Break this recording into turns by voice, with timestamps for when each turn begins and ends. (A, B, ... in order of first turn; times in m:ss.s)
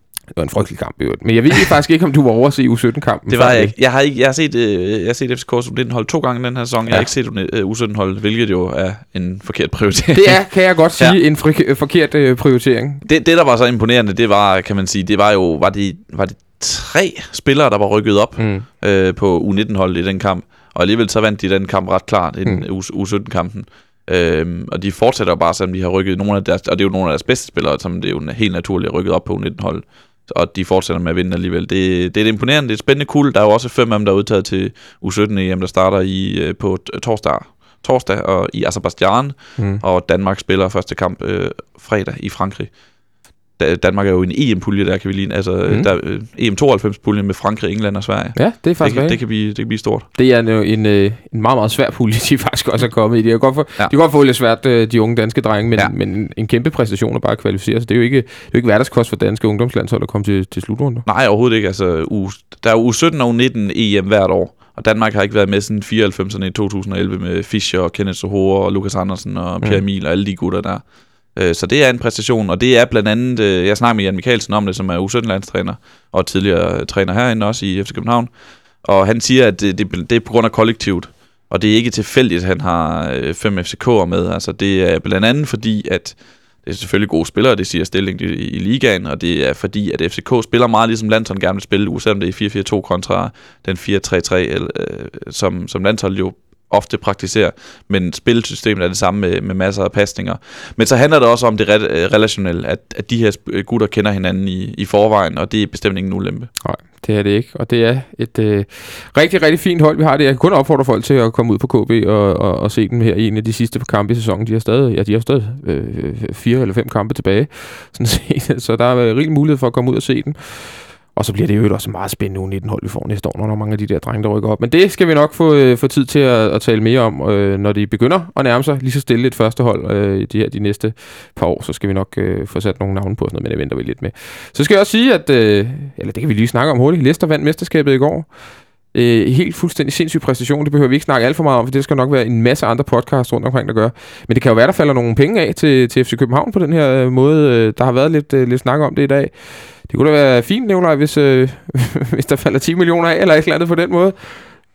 0:00.3-0:03.7 A
0:03.3-0:10.4 B
0:10.1-0:13.0 A
0:13.0-0:42.7 B
0:18.4-0:18.6 A
0:43.6-0:50.0 B
0:48.3-0:49.2 A
0:50.1-1:01.0 A
1:01.0-1:10.8 B
1:11.3-1:18.3 B
1:18.8-1:46.5 B
1:46.6-2:18.3 A
2:18.9-2:34.5 A